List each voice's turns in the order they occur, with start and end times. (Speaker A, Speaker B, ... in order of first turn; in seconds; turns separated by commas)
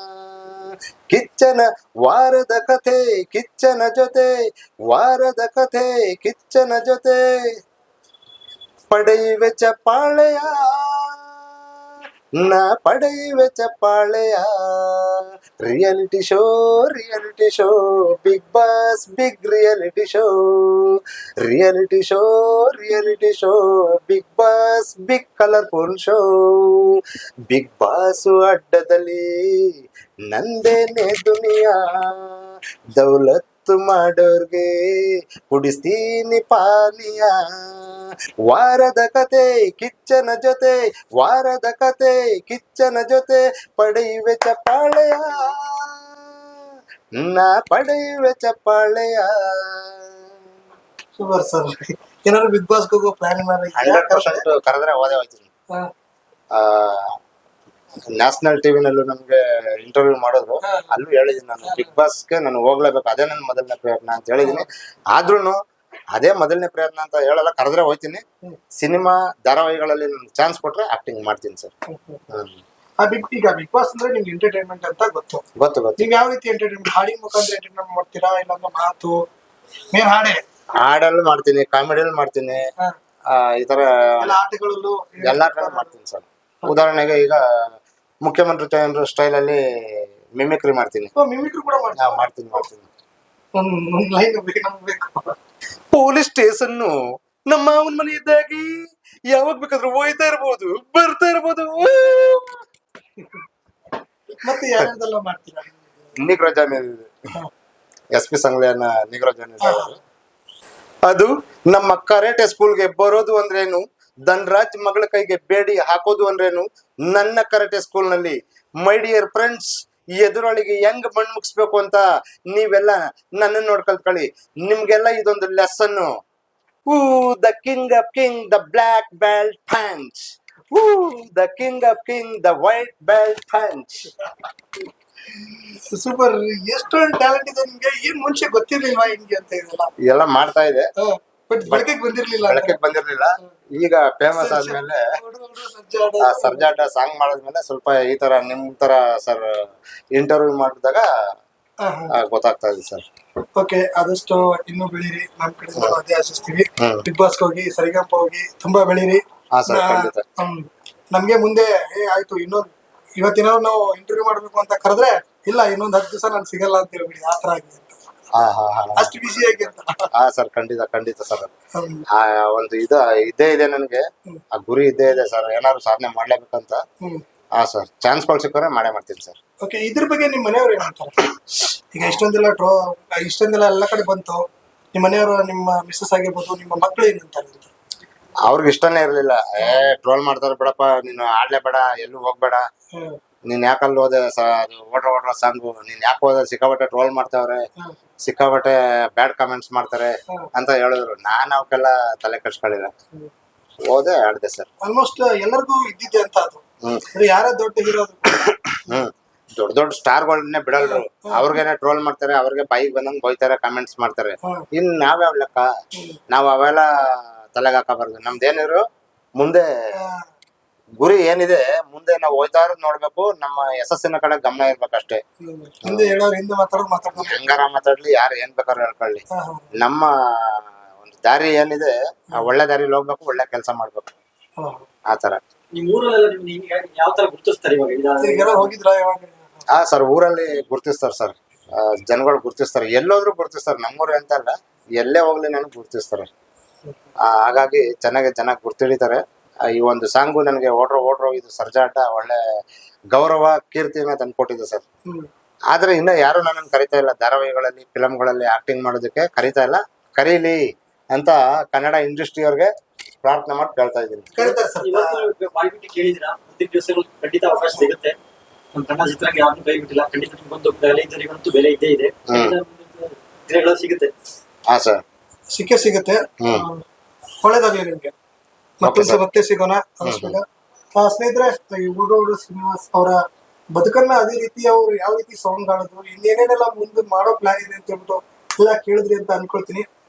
Speaker A: 1.1-4.3, Speaker A: 4.9-7.2, Speaker A: 8.9-11.1, Speaker A: 12.4-27.0, Speaker A: 27.5-29.2, Speaker A: 30.3-32.2, Speaker A: 33.0-34.7, Speaker A: 35.5-37.3, Speaker A: 38.5-45.9, Speaker A: 47.2-50.0, Speaker B: 51.2-54.4, Speaker A: 53.8-55.5, Speaker A: 56.5-57.1, Speaker A: 58.1-65.6, Speaker B: 60.6-60.9, Speaker B: 61.6-61.9, Speaker A: 66.1-68.2, Speaker A: 68.8-71.7, Speaker B: 71.9-72.2, Speaker A: 72.3-72.6, Speaker B: 73.0-75.4, Speaker A: 75.6-76.0, Speaker B: 76.0-79.2, Speaker B: 79.9-80.4, Speaker A: 80.8-82.6, Speaker A: 83.3-84.3, Speaker B: 84.2-85.9, Speaker A: 85.2-87.4, Speaker A: 88.2-89.6, Speaker A: 90.4-91.1, Speaker B: 91.1-92.2, Speaker A: 92.0-92.9, Speaker B: 93.5-95.3, Speaker A: 95.9-96.9, Speaker A: 97.5-98.8, Speaker A: 99.3-102.6, Speaker B: 104.4-105.9, Speaker A: 106.2-107.1, Speaker A: 108.1-110.0, Speaker B: 109.6-109.9, Speaker A: 111.1-126.1, Speaker A: 126.9-134.1, Speaker B: 135.3-139.9, Speaker A: 140.1-140.8, Speaker B: 141.0-142.8, Speaker A: 142.5-145.0, Speaker B: 144.3-146.7, Speaker A: 146.2-149.4, Speaker A: 150.1-151.0, Speaker B: 151.8-152.1, Speaker A: 152.1-153.0, Speaker B: 153.6-168.0, Speaker A: 156.8-157.1, Speaker A: 159.5-160.2, Speaker A: 168.3-169.4, Speaker B: 168.9-170.1, Speaker A: 170.1-171.5, Speaker B: 171.7-172.0, Speaker A: 172.1-174.0, Speaker A: 174.5-176.8, Speaker A: 177.6-179.4, Speaker B: 179.6-181.2, Speaker B: 181.9-184.4, Speaker B: 184.9-187.7, Speaker A: 188.5-192.6, Speaker A: 193.5-197.6, Speaker A: 198.2-202.9, Speaker A: 203.9-204.7, Speaker B: 204.8-206.6, Speaker B: 207.1-209.0, Speaker A: 208.4-215.7, Speaker B: 210.8-211.6, Speaker A: 216.3-216.9, Speaker A: 217.5-218.8, Speaker A: 219.4-219.6, Speaker B: 219.9-220.2, Speaker A: 221.0-225.2, Speaker B: 225.4-227.6, Speaker A: 225.8-226.1, Speaker A: 227.2-234.1, Speaker B: 229.3-229.7, Speaker B: 234.6-234.8, Speaker A: 235.1-235.4, Speaker C: 235.7-238.7, Speaker B: 238.2-239.6, Speaker A: 239.7-246.3, Speaker A: 247.2-252.4, Speaker A: 253.1-254.8, Speaker A: 255.7-260.6, Speaker A: 261.1-262.7, Speaker A: 263.2-264.3, Speaker B: 264.3-265.2, Speaker C: 264.4-268.2, Speaker C: 268.7-274.1, Speaker A: 272.3-272.6, Speaker A: 274.7-275.0, Speaker B: 275.5-276.8, Speaker A: 276.4-276.6, Speaker B: 277.4-278.1, Speaker B: 278.8-280.4, Speaker A: 278.8-279.2, Speaker A: 280.0-280.4, Speaker B: 281.0-283.2, Speaker B: 283.7-289.9